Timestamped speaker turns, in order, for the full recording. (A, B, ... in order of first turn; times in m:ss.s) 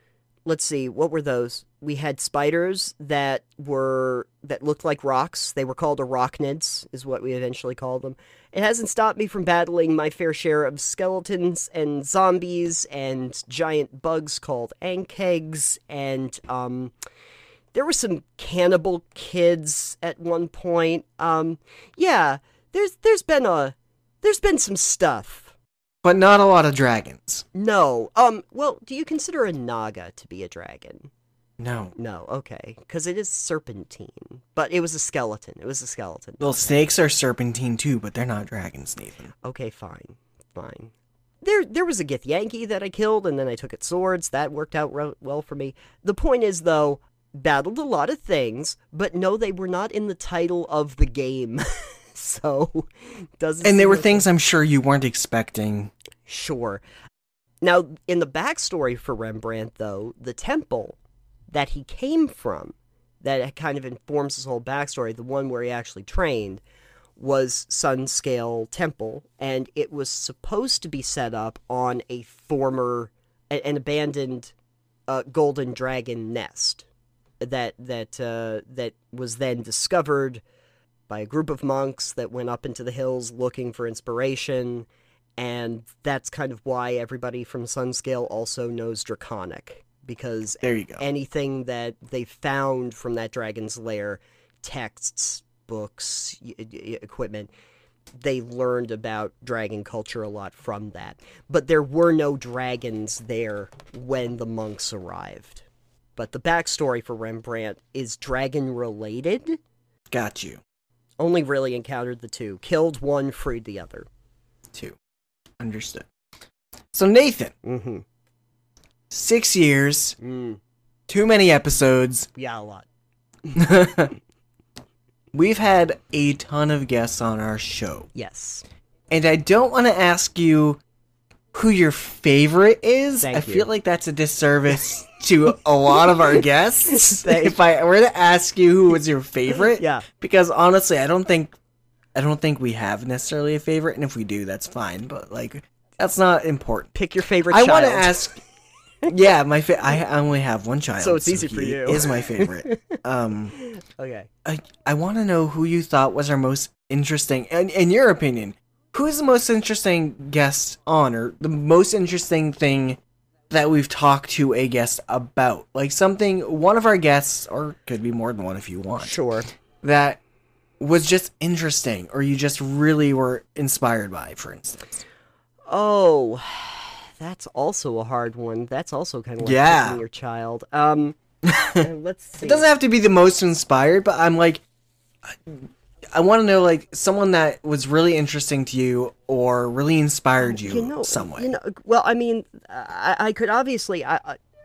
0:00.5-0:16.9 A
0:17.7-0:25.5 A
0:26.0-0:27.4 B
0:27.5-0:31.1 A
0:31.6-0:31.9 B
0:32.0-0:36.8 A
0:36.4-0:39.3 B
0:39.4-0:52.9 A
0:53.4-0:54.3 A
0:53.6-0:55.9 B
0:56.3-0:56.8 A
0:57.6-1:01.0 A
1:01.5-1:06.6 A
1:07.2-1:14.5 A
1:15.1-1:16.9 A
1:17.4-1:20.4 A
1:21.1-1:37.5 A
1:30.6-1:31.0 B
1:38.2-1:45.6 A
1:46.2-1:49.6 A
1:50.1-1:50.6 B
1:51.2-1:54.1 A
1:55.6-1:56.1 B
1:56.9-1:57.5 B
1:57.6-1:58.0 A
1:59.1-2:00.2 B
2:00.2-2:00.6 A
2:01.1-2:02.3 B
2:02.4-2:02.9 A
2:03.6-2:04.1 B
2:05.3-2:08.1 B
2:08.2-2:08.6 A
2:09.1-2:10.8 B
2:11.5-2:21.5 B
2:13.2-2:13.7 A
2:16.9-2:17.6 A
2:19.8-2:20.0 A
2:22.2-2:26.9 B
2:27.0-2:28.3 A
2:27.5-2:28.4 B
2:29.1-2:33.5 B
2:31.0-2:33.0 A
2:33.6-2:34.3 A
2:34.4-2:43.0 B
2:43.5-2:49.2 B
2:49.0-2:49.5 A
2:49.8-2:50.2 B
2:50.8-2:55.0 B
2:55.7-3:01.2 A
2:59.4-3:00.0 B
3:01.4-3:01.8 B
3:01.7-3:02.6 A
3:02.4-3:04.6 B
3:05.3-3:11.5 B
3:10.4-3:14.4 A